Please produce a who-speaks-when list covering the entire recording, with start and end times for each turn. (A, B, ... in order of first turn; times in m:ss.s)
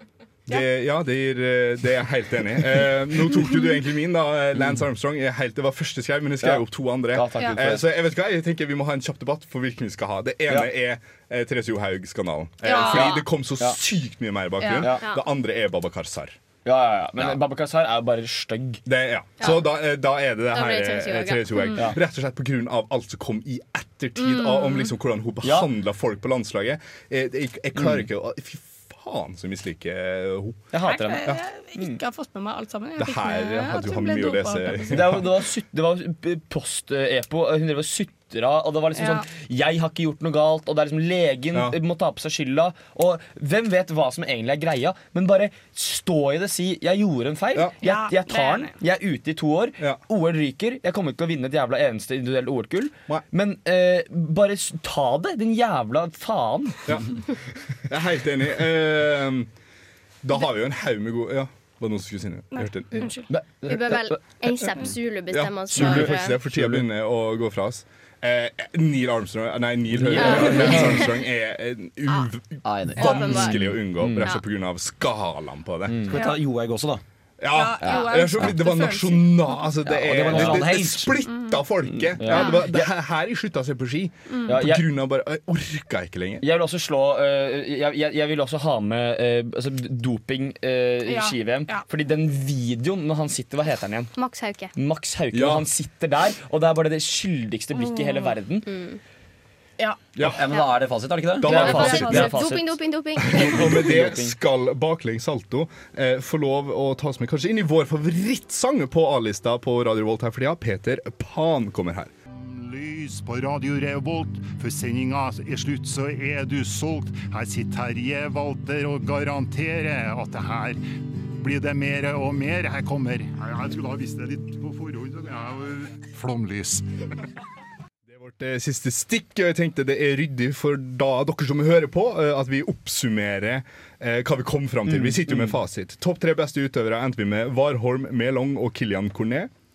0:00.5-0:16.4 A
0:06.4-0:07.8 B
0:12.6-0:13.2 C
0:12.7-0:13.8 B
0:14.6-0:14.9 C
0:14.8-0:15.0 B
0:16.6-0:18.8 B
0:18.9-0:30.7 A
0:20.5-0:21.8 D
0:24.2-0:24.9 C
0:25.4-0:25.7 B
0:30.7-0:32.0 B
0:30.8-0:35.0 C
0:33.0-0:35.2 A
0:34.9-0:56.8 B
0:39.0-0:39.3 C
0:47.8-0:48.7 C
0:57.9-0:59.5 A
1:00.2-1:03.1 A
1:02.5-1:03.3 C
1:03.3-1:04.2 B
1:03.7-1:06.4 D
1:05.3-1:16.0 A
1:05.7-1:06.8 B
1:09.9-1:10.9 B
1:10.2-1:11.1 D
1:10.2-1:10.6 E
1:12.6-1:13.5 E
1:13.0-1:13.6 D
1:14.0-1:14.3 B
1:15.9-1:16.2 B
1:16.1-1:17.0 E
1:16.1-1:16.4 C
1:17.4-1:26.4 A
1:17.5-1:19.5 C
1:17.8-1:18.6 E
1:19.8-1:21.2 E
1:20.3-1:20.6 B
1:22.2-1:22.9 B
1:24.5-1:24.8 B
1:26.4-1:34.1 B
1:31.1-1:31.8 C
1:34.2-1:34.7 D
1:34.8-1:38.7 B
1:35.3-1:35.7 A
1:37.9-1:38.3 C
1:38.7-1:39.0 D
1:40.2-1:40.4 A
1:40.2-1:41.9 E
1:41.4-1:42.3 A
1:41.4-1:44.4 B
1:41.4-1:43.8 D
1:41.5-1:42.4 C
1:43.2-1:52.1 A
1:52.4-2:00.8 F
2:01.4-2:06.8 F
2:08.1-2:19.5 A
2:14.9-2:15.6 B